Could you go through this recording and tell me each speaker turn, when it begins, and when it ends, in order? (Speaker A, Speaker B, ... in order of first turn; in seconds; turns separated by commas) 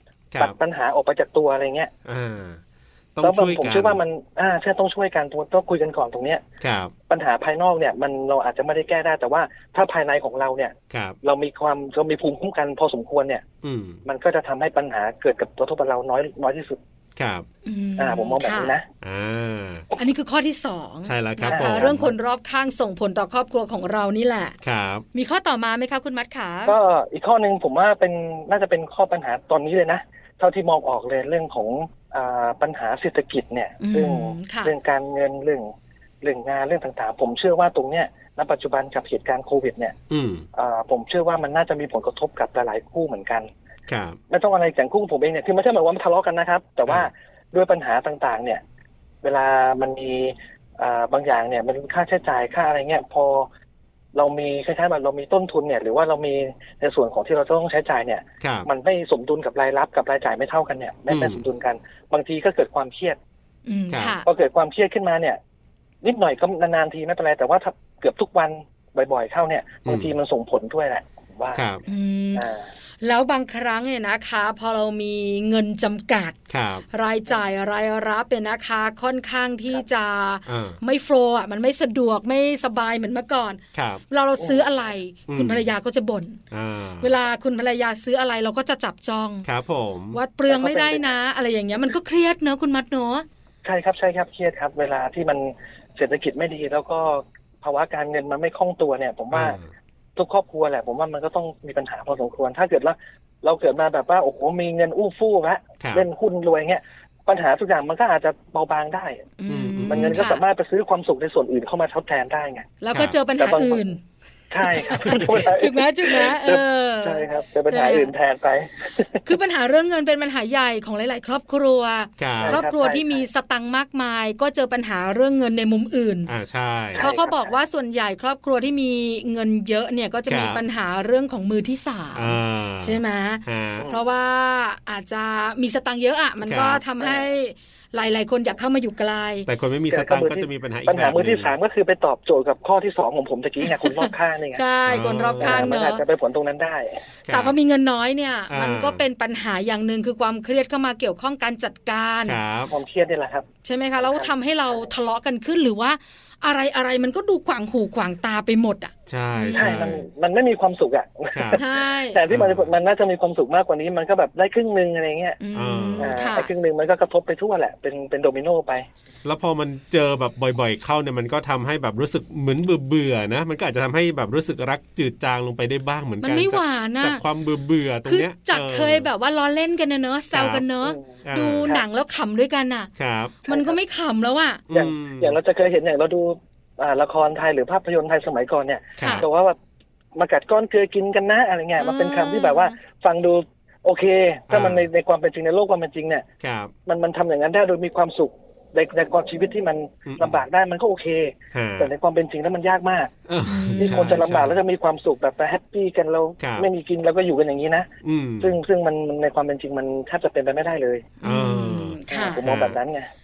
Speaker A: 0.4-1.9, Speaker B: 2.0-2.6, Speaker B: 3.1-4.0, Speaker A: 3.2-6.4, Speaker B: 6.6-6.9, Speaker A: 7.1-13.4, Speaker B: 10.9-11.2, Speaker B: 13.6-14.0, Speaker A: 14.1-16.8, Speaker B: 17.2-17.5, Speaker C: 17.6-18.8, Speaker A: 18.0-18.9, Speaker B: 19.0-19.9, Speaker C: 20.0-24.6, Speaker B: 21.1-22.1, Speaker A: 21.5-22.0, Speaker B: 24.6-25.1, Speaker C: 25.1-26.8, Speaker A: 26.7-40.0, Speaker C: 33.8-34.7, Speaker B: 40.1-40.4, Speaker A: 40.5-43.5, Speaker B: 43.9-44.2, Speaker A: 44.3-48.6, Speaker A: 49.2-53.5, Speaker A: 54.1-63.2, Speaker B: 58.4-58.7, Speaker B: 61.1-61.4, Speaker C: 63.7-64.2, Speaker B: 63.9-64.2, Speaker A: 64.2-65.4, Speaker A: 66.0-71.6, Speaker B: 69.9-70.1, Speaker B: 71.5-71.8, Speaker C: 71.9-72.5, Speaker A: 72.3-72.7, Speaker C: 73.0-76.4, Speaker B: 76.5-76.8, Speaker C: 76.9-86.4, Speaker B: 80.5-80.8, Speaker B: 83.7-84.0, Speaker A: 84.4-84.7, Speaker B: 85.3-85.6, Speaker B: 86.5-87.1, Speaker C: 87.0-89.5, Speaker B: 89.5-90.2, Speaker C: 90.1-93.2, Speaker A: 90.5-91.1, Speaker A: 93.6-99.6, Speaker B: 99.3-99.7, Speaker A: 100.2-109.3, Speaker B: 105.8-106.1, Speaker C: 109.4-110.4, Speaker B: 109.5-110.3, Speaker A: 109.9-112.7, Speaker C: 112.8-114.0, Speaker A: 113.4-113.8, Speaker A: 114.5-119.2, Speaker C: 114.6-118.1, Speaker C: 119.2-126.3, Speaker B: 122.2-122.6, Speaker A: 122.4-123.2, Speaker B: 126.3-127.1, Speaker A: 127.0-127.5, Speaker C: 127.0-139.5, Speaker B: 130.3-130.6, Speaker B: 132.1-133.9, Speaker A: 133.8-134.0, Speaker B: 136.4-136.8, Speaker A: 137.0-137.2, Speaker B: 139.5-141.6, Speaker A: 139.9-144.6, Speaker C: 143.6-146.0, Speaker B: 144.9-145.7, Speaker A: 145.4-147.1, Speaker B: 147.2-147.5, Speaker C: 147.3-152.4, Speaker B: 148.5-149.0, Speaker B: 152.2-152.7, Speaker A: 152.7-153.5, Speaker C: 153.6-160.0, Speaker A: 154.0-154.8, Speaker B: 159.1-160.0, Speaker A: 159.5-165.4, Speaker B: 161.3-161.6, Speaker C: 161.6-162.2, Speaker B: 162.3-162.7, Speaker C: 165.4-166.5, Speaker B: 165.5-166.2, Speaker A: 166.0-168.9, Speaker B: 169.2-179.1, Speaker C: 176.2-177.2, Speaker C: 178.1-182.9, Speaker B: 180.3-180.6, Speaker A: 180.8-181.8, Speaker B: 181.2-181.8, Speaker B: 183.0-183.4, Speaker C: 183.4-184.6, Speaker A: 183.5-183.8, Speaker B: 184.7-185.4, Speaker A: 184.7-189.6, Speaker B: 189.0-189.2, Speaker C: 189.0-189.2, Speaker A: 190.1-196.2, Speaker C: 191.8-192.8, Speaker B: 194.5-194.9, Speaker B: 196.4-196.7, Speaker A: 196.9-203.1, Speaker B: 200.1-200.4, Speaker B: 201.5-201.9, Speaker B: 203.3-204.6, Speaker C: 203.4-204.1, Speaker A: 203.8-207.9, Speaker B: 206.4-206.7, Speaker B: 208.0-208.6, Speaker A: 208.4-211.1, Speaker C: 211.2-212.4, Speaker B: 211.2-212.8, Speaker A: 212.1-213.1